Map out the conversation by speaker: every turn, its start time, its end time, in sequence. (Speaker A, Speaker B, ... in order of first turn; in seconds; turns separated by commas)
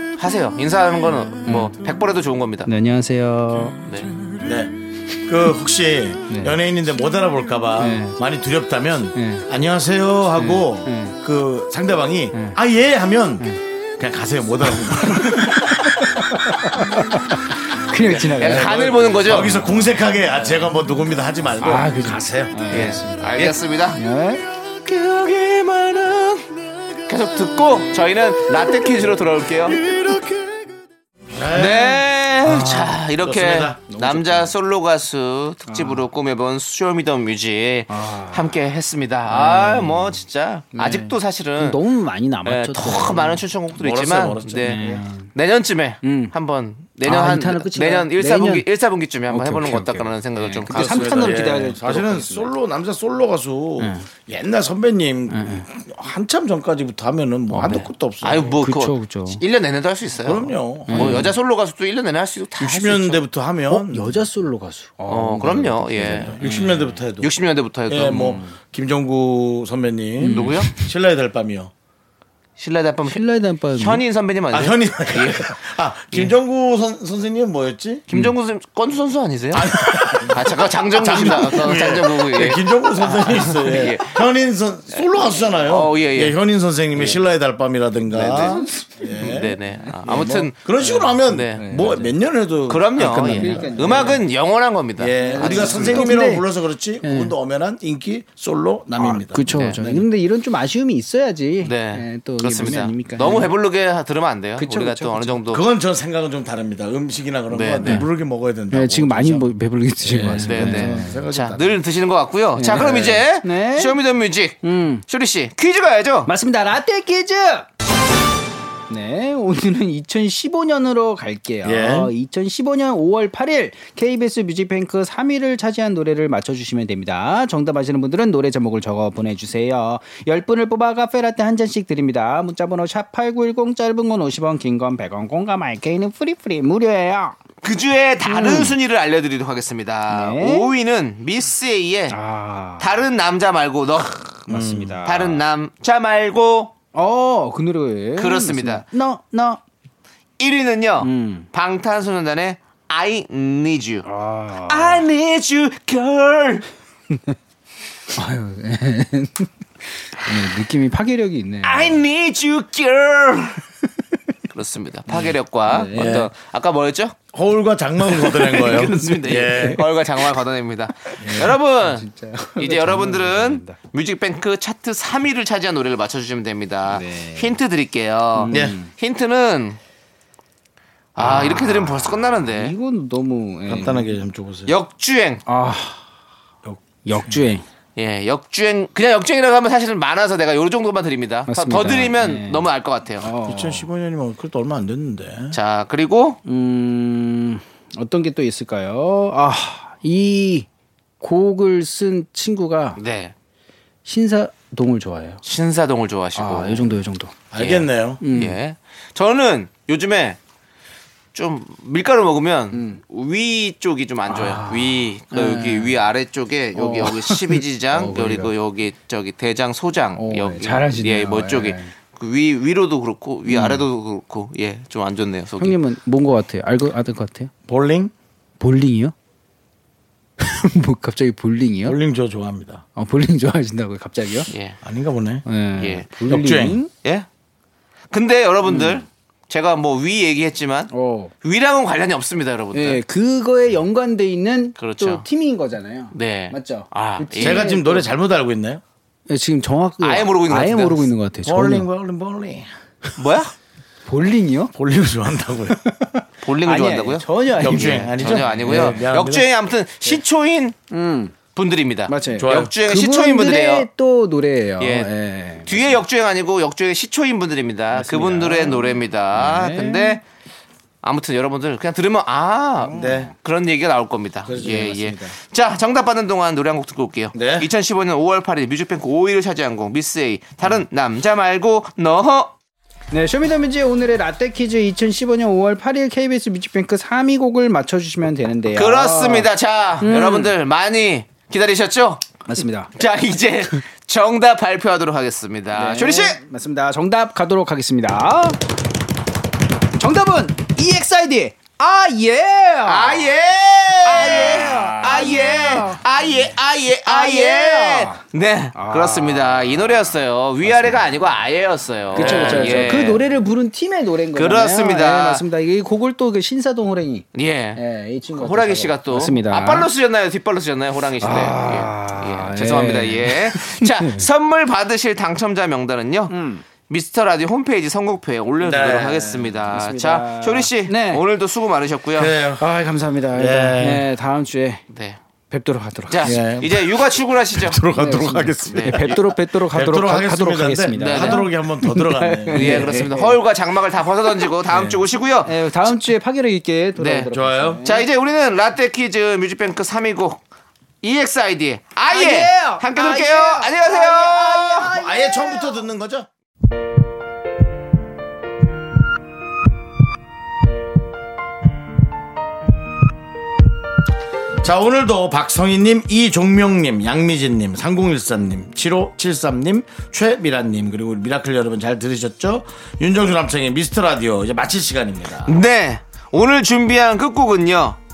Speaker A: 0.2-2.7, Speaker B: 1.4-1.7, Speaker B: 2.7-3.8, Speaker A: 3.8-4.1, Speaker C: 4.4-4.8, Speaker C: 5.3-17.2, Speaker B: 6.3-6.6, Speaker B: 7.8-8.2, Speaker B: 9.2-9.4, Speaker B: 10.8-11.2, Speaker B: 14.8-18.9, Speaker C: 18.0-22.7, Speaker A: 18.1-19.6, Speaker B: 21.6-24.4, Speaker A: 22.7-24.0, Speaker A: 24.6-26.5, Speaker A: 27.1-29.8, Speaker C: 29.8-30.6, Speaker C: 31.3-32.0, Speaker A: 31.5-41.8, Speaker B: 32.5-33.0, Speaker C: 33.1-33.9, Speaker B: 33.9-34.5, Speaker B: 35.7-36.0, Speaker B: 37.9-38.5, Speaker B: 39.3-40.2, Speaker B: 40.7-43.4, Speaker A: 42.4-51.5, Speaker C: 43.7-45.0, Speaker B: 44.6-45.3, Speaker B: 46.0-46.3, Speaker B: 47.0-48.6, Speaker B: 49.3-52.5, Speaker C: 50.7-58.5, Speaker B: 53.8-54.1, Speaker B: 55.3-55.6, Speaker B: 57.5-57.9, Speaker A: 57.6-63.2, Speaker B: 58.6-59.4, Speaker C: 60.2-61.3, Speaker B: 60.9-61.3, Speaker C: 62.6-64.2, Speaker B: 63.7-66.9, Speaker A: 65.1-66.6, Speaker C: 66.4-67.3, Speaker A: 67.2-68.4, Speaker C: 67.9-71.7, Speaker B: 68.1-68.5, Speaker B: 70.2-70.8, Speaker A: 70.2-70.7, Speaker A: 72.6-73.2, Speaker B: 73.0-74.0, Speaker A: 73.8-75.6, Speaker C: 74.5-78.0, Speaker A: 78.1-84.3, Speaker C: 79.5-94.2, Speaker A: 85.5-86.4, Speaker A: 88.1-88.6, Speaker B: 88.3-92.1, Speaker A: 89.2-90.6, Speaker A: 91.2-91.7, Speaker A: 92.7-96.2, Speaker B: 93.0-94.2, Speaker C: 95.0-100.0, Speaker B: 95.2-96.5, Speaker B: 97.0-97.3, Speaker B: 99.0-103.5, Speaker A: 99.5-99.8, Speaker A: 101.6-105.6, Speaker B: 104.6-105.5, Speaker C: 105.5-111.8, Speaker A: 107.5-108.0, Speaker B: 107.8-108.1, Speaker B: 108.7-111.2, Speaker A: 110.4-116.3, Speaker B: 112.5-114.0, Speaker B: 114.6-115.0, Speaker B: 116.2-117.7, Speaker B: 118.9-137.4, Speaker C: 121.6-122.1, Speaker A: 137.6-142.2, Speaker B: 138.2-138.8, Speaker B: 140.1-140.7, Speaker B: 142.1-142.9, Speaker A: 142.8-144.4, Speaker B: 144.4-145.4, Speaker C: 144.5-145.0, Speaker A: 145.0-146.7, Speaker B: 146.9-149.6, Speaker A: 148.2-148.8, Speaker A: 150.4-154.1, Speaker B: 151.0-151.5, Speaker B: 154.1-155.1, Speaker A: 154.6-156.7, Speaker B: 157.1-157.3, Speaker B: 158.1-159.5, Speaker B: 160.1-162.0, Speaker A: 161.6-163.6, Speaker A: 164.5-167.2, Speaker B: 165.1-166.1, Speaker C: 165.9-166.3, Speaker C: 167.3-169.8, Speaker A: 168.2-179.8, Speaker B: 168.6-169.7, Speaker C: 171.2-171.5, Speaker B: 171.2-173.8, Speaker B: 176.9-177.6, Speaker B: 178.3-178.9, Speaker C: 178.5-178.8, Speaker A: 181.2-182.7, Speaker B: 181.2-184.1, Speaker C: 181.2-181.6, Speaker C: 183.7-184.7, Speaker A: 184.7-185.4, Speaker B: 185.5-186.0, Speaker C: 186.7-187.4, Speaker B: 186.8-187.6, Speaker A: 187.9-193.3, Speaker B: 191.5-193.9, Speaker C: 193.4-195.6, Speaker A: 195.5-196.4, Speaker B: 196.4-200.7, Speaker B: 201.2-203.0, Speaker A: 202.9-203.3, Speaker B: 204.0-205.4, Speaker A: 205.4-206.9, Speaker B: 206.3-207.3, Speaker C: 207.5-208.2, Speaker A: 207.6-210.4, Speaker B: 208.2-208.6, Speaker A: 211.3-225.8, Speaker B: 212.7-213.0, Speaker B: 214.3-216.0, Speaker B: 216.7-218.5, Speaker B: 220.2-221.9, Speaker B: 223.4-223.8, Speaker B: 225.6-227.5, Speaker C: 227.7-228.1, Speaker B: 228.6-229.1, Speaker B: 230.4-232.0, Speaker C: 231.8-232.8, Speaker B: 232.9-234.5, Speaker A: 234.5-234.8, Speaker C: 234.8-235.4, Speaker B: 235.4-236.9, Speaker A: 235.8-236.1, Speaker C: 236.3-236.8, Speaker A: 238.1-240.9, Speaker B: 238.6-239.0, Speaker B: 240.9-241.3, Speaker A: 241.4-243.0, Speaker B: 242.7-248.1, Speaker A: 244.8-245.2, Speaker A: 246.1-247.7, Speaker C: 247.4-248.8, Speaker B: 249.3-251.9, Speaker A: 250.0-251.1, Speaker C: 251.4-252.7, Speaker A: 253.2-253.5, Speaker B: 254.1-254.7, Speaker C: 254.7-255.8, Speaker B: 256.0-259.0, Speaker A: 256.4-260.8, Speaker C: 257.6-259.5, Speaker B: 260.9-261.3, Speaker A: 261.5-263.9, Speaker B: 262.1-266.0, Speaker C: 262.4-262.7, Speaker A: 264.8-265.1, Speaker A: 265.6-270.2, Speaker B: 267.9-270.2, Speaker A: 271.0-282.5, Speaker B: 272.8-273.3, Speaker C: 272.9-273.3, Speaker C: 274.5-274.8, Speaker B: 274.5-275.3, Speaker C: 277.3-277.7, Speaker B: 283.1-289.5, Speaker A: 288.7-292.2, Speaker B: 290.0-290.5, Speaker B: 292.4-292.9, Speaker A: 292.9-296.4, Speaker B: 295.7-298.6, Speaker B: 300.0-308.2, Speaker A: 302.8-313.2, Speaker B: 308.7-311.2, Speaker B: 312.1-319.9, Speaker C: 312.2-312.6, Speaker A: 314.3-315.4, Speaker A: 317.3-326.3, Speaker B: 321.2-324.3, Speaker B: 326.3-326.6, Speaker A: 326.9-332.3, Speaker C: 328.6-329.4, Speaker B: 329.5-331.2, Speaker C: 332.1-332.7, Speaker B: 332.6-334.8, Speaker C: 333.3-334.1, Speaker A: 334.9-335.2, Speaker B: 335.5-336.5, Speaker A: 336.1-337.8, Speaker C: 336.3-342.9, Speaker B: 337.9-343.4, Speaker A: 338.6-339.2, Speaker A: 340.9-341.4, Speaker A: 342.5-345.6, Speaker C: 344.7-345.0, Speaker B: 345.4-348.1, Speaker A: 346.9-347.3, Speaker C: 347.3-347.8, Speaker A: 347.8-350.4, Speaker A: 351.0-354.9, Speaker B: 352.1-355.8, Speaker C: 354.8-356.3, Speaker C: 364.6-375.6, Speaker A: 375.4-378.0